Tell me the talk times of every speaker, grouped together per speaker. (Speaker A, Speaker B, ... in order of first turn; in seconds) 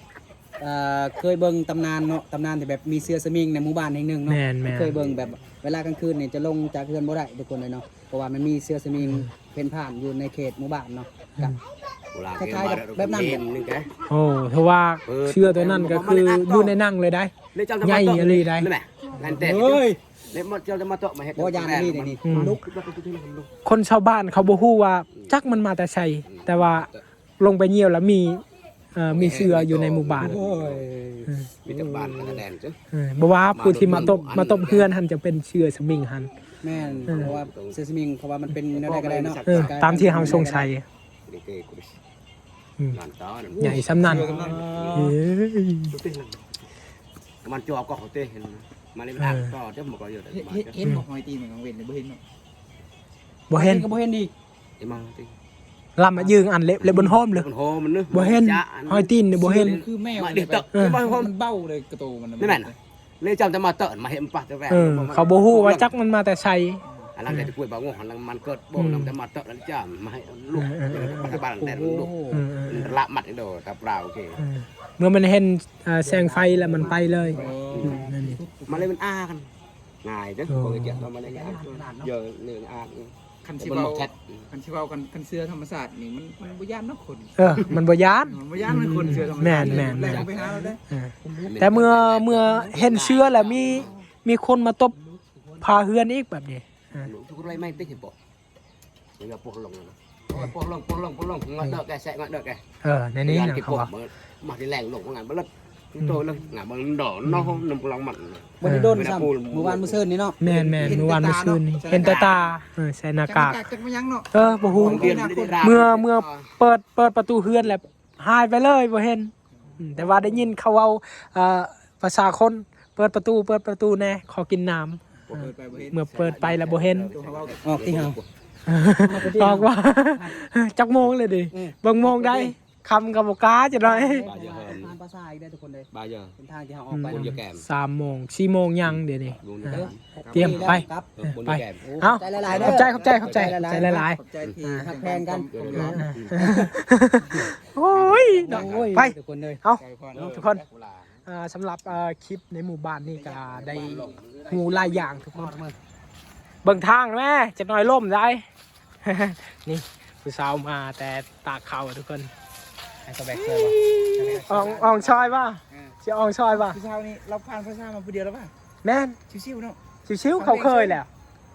Speaker A: 0.6-11.6, 12.3-13.4, 19.2-19.9, 21.4-22.6, 30.2-32.4, 36.6-40.7, 44.1-45.1, 53.5-54.3, 71.2-72.4, 76.0-78.9, 81.2-82.1, 92.6-93.8, 108.6-110.4, 127.6-128.2, 129.0-130.4, 131.5-132.5, 133.8-137.3, 139.7-141.1, 141.8-144.0, 144.8-146.7, 147.9-149.6, 153.5-154.1, 155.3-155.8, 163.0-166.0
Speaker B: 4.3-5.0, 9.0-9.3, 14.1-18.7, 22.2-22.6, 23.6-28.4, 28.9-30.4, 32.9-36.3, 37.1-37.3, 39.5-40.8, 43.6-44.4, 44.9-45.9, 49.2-49.5, 53.5-53.9, 56.0-57.5, 58.1-59.8, 60.7-61.0, 64.7-67.5, 68.8-69.1, 70.5-71.4, 72.3-73.0, 74.4-78.4, 80.5-81.1, 87.4-90.3, 90.9-94.9, 95.6-97.1, 102.8-103.9, 107.2-107.6, 108.6-109.1, 110.4-113.7, 114.3-127.1, 128.7-134.3, 136.9-144.9, 145.9-150.6, 151.2-155.5, 156.6-158.4, 159.0-162.3, 163.8-166.8, 168.8-169.2, 170.1-171.1
Speaker C: 4.8-5.3, 12.1-13.9, 15.1-16.8, 17.5-23.5, 25.1-25.4, 26.2-27.0, 29.1-30.9, 31.6-32.8, 33.5-34.9, 36.6-37.8, 38.7-40.5, 41.3-42.0, 42.9-45.1, 45.9-46.6, 47.4-50.8, 54.8-55.3, 56.2-61.3, 62.4-65.9, 67.2-72.1, 72.7-74.4, 77.7-78.0, 78.7-79.5, 80.0-84.5, 88.5-94.0, 97.0-98.1, 99.2-102.6, 103.2-110.1, 110.8-111.0, 112.0-112.4, 114.7-116.5, 125.3-128.3, 134.2-134.9, 135.9-136.3, 137.1-137.7, 138.8-140.0, 141.2-141.8, 142.3-143.5, 145.5-146.7, 147.4-149.0, 150.1-151.2, 153.3-155.3
Speaker D: 19.4-19.8, 43.5-44.7, 50.3-52.2, 59.3-62.8, 77.3-78.0, 83.4-90.8, 110.4-112.6, 113.2-115.9, 119.7-120.2, 125.3-126.0, 127.1-128.0, 140.2-140.8, 143.7-146.1, 149.8-150.4, 163.7-164.4, 166.5-168.5, 169.3-169.8, 170.4-171.0